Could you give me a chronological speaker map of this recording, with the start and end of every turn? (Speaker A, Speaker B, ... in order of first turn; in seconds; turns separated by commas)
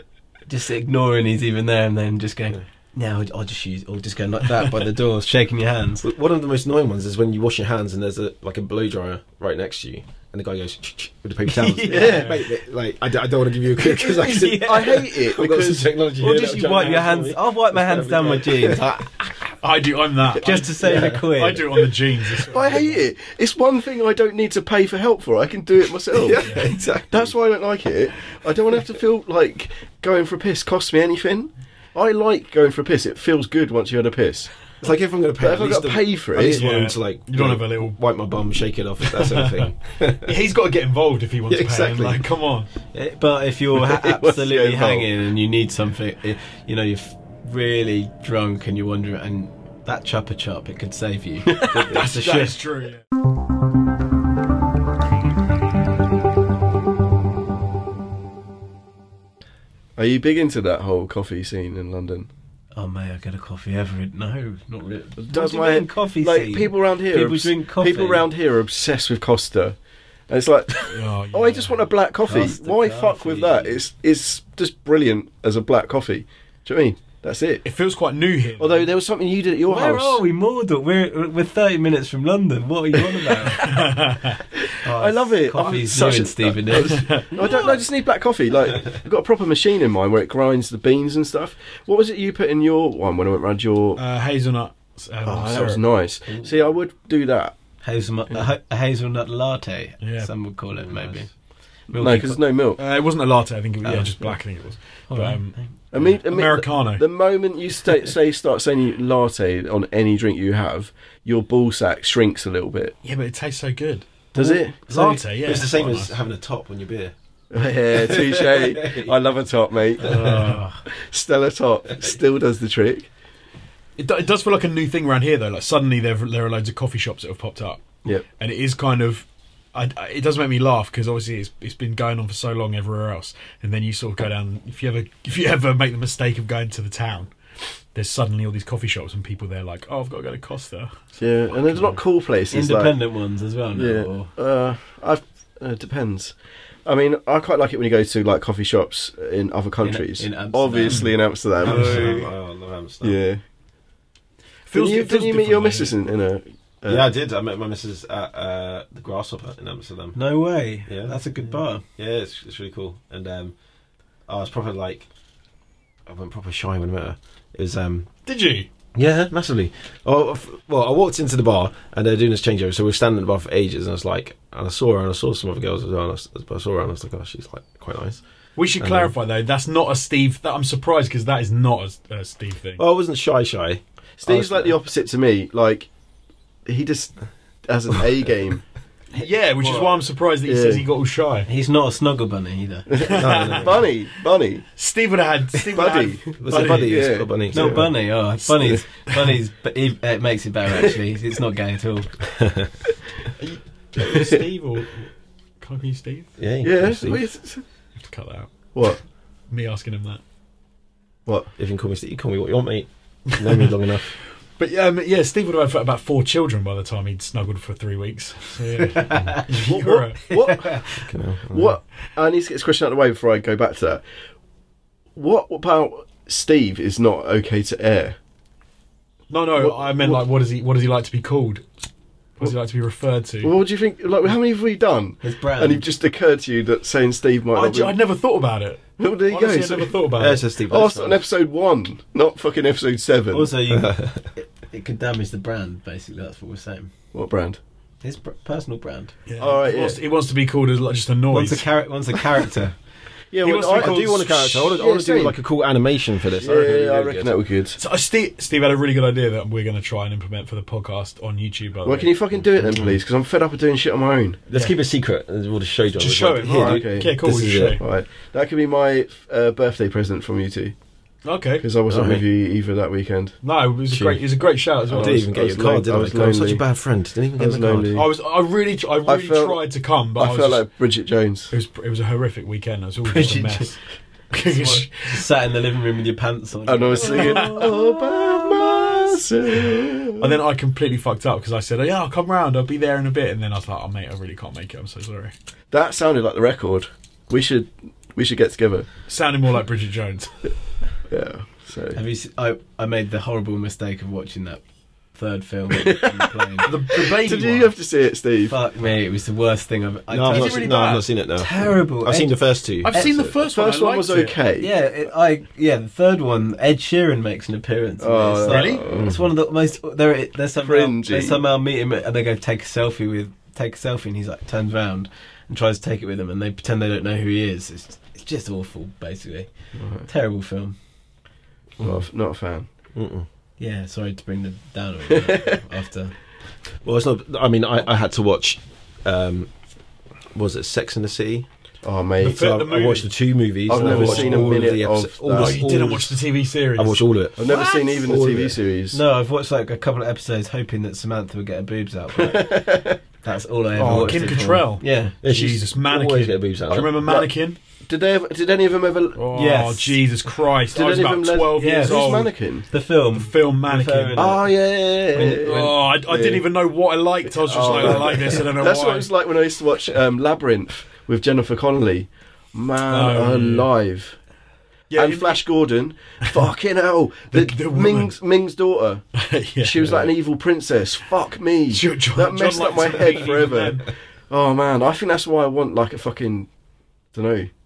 Speaker A: 0.5-6.0, Speaker B: 6.0-19.1, Speaker C: 11.6-12.5, Speaker A: 11.7-12.3, Speaker A: 13.8-15.1, Speaker D: 14.4-15.9, Speaker A: 16.2-19.0, Speaker C: 19.6-23.0, Speaker A: 20.4-21.9, Speaker D: 22.4-26.5, Speaker B: 26.1-27.3, Speaker D: 27.1-34.5, Speaker B: 34.8-40.3, Speaker D: 35.4-36.6, Speaker C: 36.4-38.0, Speaker C: 39.1-42.7, Speaker B: 41.5-42.3, Speaker A: 42.9-51.9, Speaker D: 43.8-45.1, Speaker B: 51.7-52.6, Speaker C: 51.9-53.0, Speaker D: 60.0-62.3, Speaker A: 62.7-68.3, Speaker D: 65.2-69.8, Speaker D: 70.3-77.6, Speaker C: 70.9-71.8, Speaker A: 72.2-73.8, Speaker C: 77.6-78.9, Speaker D: 78.6-80.2, Speaker A: 79.7-83.8, Speaker C: 83.6-84.4, Speaker A: 84.8-87.2, Speaker D: 84.9-94.0, Speaker C: 86.8-87.3, Speaker C: 94.0-95.8, Speaker D: 95.2-97.6, Speaker A: 97.8-101.3, Speaker C: 100.0-100.3, Speaker B: 100.8-101.2, Speaker A: 101.9-102.4, Speaker D: 101.9-102.8, Speaker C: 102.8-107.0, Speaker A: 103.8-104.4, Speaker A: 105.1-105.8, Speaker D: 105.9-113.0, Speaker C: 113.0-114.1, Speaker A: 114.3-115.2, Speaker D: 114.3-114.8, Speaker C: 114.9-116.1, Speaker B: 115.4-117.1, Speaker D: 117.5-123.1, Speaker B: 117.9-119.1, Speaker A: 120.1-120.8, Speaker C: 120.1-120.6, Speaker C: 124.0-127.8, Speaker C: 128.4-137.3, Speaker C: 137.9-142.0, Speaker D: 141.2-143.0, Speaker A: 142.5-144.3, Speaker D: 143.7-146.3, Speaker D: 146.8-152.3, Speaker A: 149.8-151.1, Speaker B: 151.6-153.2, Speaker C: 151.6-152.2, Speaker A: 151.7-152.2, Speaker D: 153.0-153.4, Speaker C: 154.7-155.9, Speaker D: 154.7-157.0, Speaker B: 156.9-160.2, Speaker A: 160.1-161.8, Speaker B: 160.9-161.2, Speaker B: 161.8-163.5, Speaker B: 164.3-165.1, Speaker B: 166.1-168.1, Speaker C: 168.2-168.7, Speaker B: 168.9-178.2, Speaker C: 178.6-182.8, Speaker B: 178.8-179.1, Speaker B: 182.8-184.7, Speaker D: 184.2-185.9, Speaker D: 186.7-188.6, Speaker C: 189.1-191.5, Speaker D: 190.4-190.8, Speaker A: 191.5-192.9, Speaker D: 192.9-194.7, Speaker C: 193.0-193.7, Speaker B: 193.0-193.8, Speaker C: 194.8-197.1, Speaker D: 195.7-197.8, Speaker B: 196.3-198.0, Speaker A: 197.5-202.2, Speaker B: 202.4-202.7, Speaker C: 203.4-205.0, Speaker D: 204.0-204.4, Speaker C: 205.6-206.3, Speaker B: 206.4-207.2, Speaker D: 206.6-207.6, Speaker C: 208.0-208.5, Speaker D: 208.7-209.0, Speaker C: 209.5-210.2, Speaker B: 211.6-214.1, Speaker C: 214.6-220.4, Speaker A: 219.0-219.4, Speaker D: 219.6-220.8, Speaker A: 220.3-220.8, Speaker B: 221.0-221.8, Speaker D: 221.5-224.0, Speaker D: 225.1-228.2, Speaker C: 229.3-231.7, Speaker D: 229.6-230.2, Speaker C: 232.4-233.5, Speaker D: 233.4-238.0, Speaker A: 235.2-235.8, Speaker C: 237.5-240.4, Speaker D: 239.0-243.5, Speaker B: 240.2-241.2, Speaker A: 243.3-246.9, Speaker B: 243.7-244.2, Speaker D: 247.1-247.6, Speaker A: 248.0-249.1, Speaker C: 249.3-251.7, Speaker D: 249.4-250.0, Speaker A: 251.3-252.8, Speaker D: 253.3-255.4, Speaker C: 253.4-254.7, Speaker B: 253.7-257.2, Speaker D: 256.4-257.8, Speaker C: 257.7-262.1, Speaker D: 261.8-264.4, Speaker B: 264.5-267.8, Speaker C: 265.9-267.8, Speaker D: 266.5-270.8, Speaker C: 271.2-271.7, Speaker D: 271.6-273.4, Speaker B: 271.9-272.2, Speaker C: 273.4-275.2, Speaker D: 274.9-276.6, Speaker B: 274.9-278.0, Speaker D: 277.4-278.1, Speaker C: 277.9-280.6, Speaker D: 279.0-279.6, Speaker D: 280.1-281.5, Speaker C: 281.5-283.8, Speaker A: 283.0-283.7, Speaker C: 284.3-285.2, Speaker A: 284.4-289.0, Speaker D: 286.6-290.4, Speaker C: 287.0-287.7, Speaker C: 290.2-295.3, Speaker D: 295.7-298.9, Speaker C: 299.1-300.4, Speaker D: 301.1-302.0, Speaker A: 301.9-304.6, Speaker A: 305.1-306.7, Speaker D: 305.8-306.2, Speaker C: 306.6-307.7, Speaker D: 306.9-308.5, Speaker A: 308.5-313.2, Speaker B: 310.1-313.2, Speaker C: 310.3-311.1, Speaker C: 312.8-314.4, Speaker D: 313.4-314.7, Speaker A: 314.6-330.8, Speaker D: 318.0-319.1, Speaker C: 318.5-318.8, Speaker B: 318.9-319.2, Speaker D: 320.6-321.4, Speaker D: 329.8-330.1, Speaker D: 331.8-332.7, Speaker B: 332.9-333.2, Speaker A: 333.6-336.1, Speaker D: 335.2-335.5, Speaker B: 336.8-339.5, Speaker B: 340.3-341.5, Speaker D: 341.8-342.6, Speaker C: 342.2-343.1, Speaker B: 342.2-347.5, Speaker D: 343.7-345.6, Speaker C: 343.7-344.7, Speaker C: 345.3-347.8, Speaker D: 347.4-349.0, Speaker B: 348.0-348.6, Speaker A: 348.9-355.1, Speaker D: 352.2-353.0, Speaker C: 353.8-357.6, Speaker B: 353.8-354.4, Speaker B: 355.2-357.1, Speaker D: 357.0-357.3, Speaker D: 357.9-359.3, Speaker C: 359.1-362.3, Speaker A: 359.3-360.0, Speaker D: 360.7-362.6, Speaker A: 361.6-364.6, Speaker C: 363.1-364.4, Speaker D: 364.1-366.4, Speaker B: 365.1-365.6, Speaker C: 365.2-369.1, Speaker D: 367.3-374.2, Speaker C: 372.9-373.7, Speaker C: 374.9-375.4, Speaker D: 374.9-379.0, Speaker C: 377.3-378.1, Speaker C: 379.2-380.1, Speaker D: 379.6-386.5, Speaker C: 381.7-383.9, Speaker D: 387.1-387.5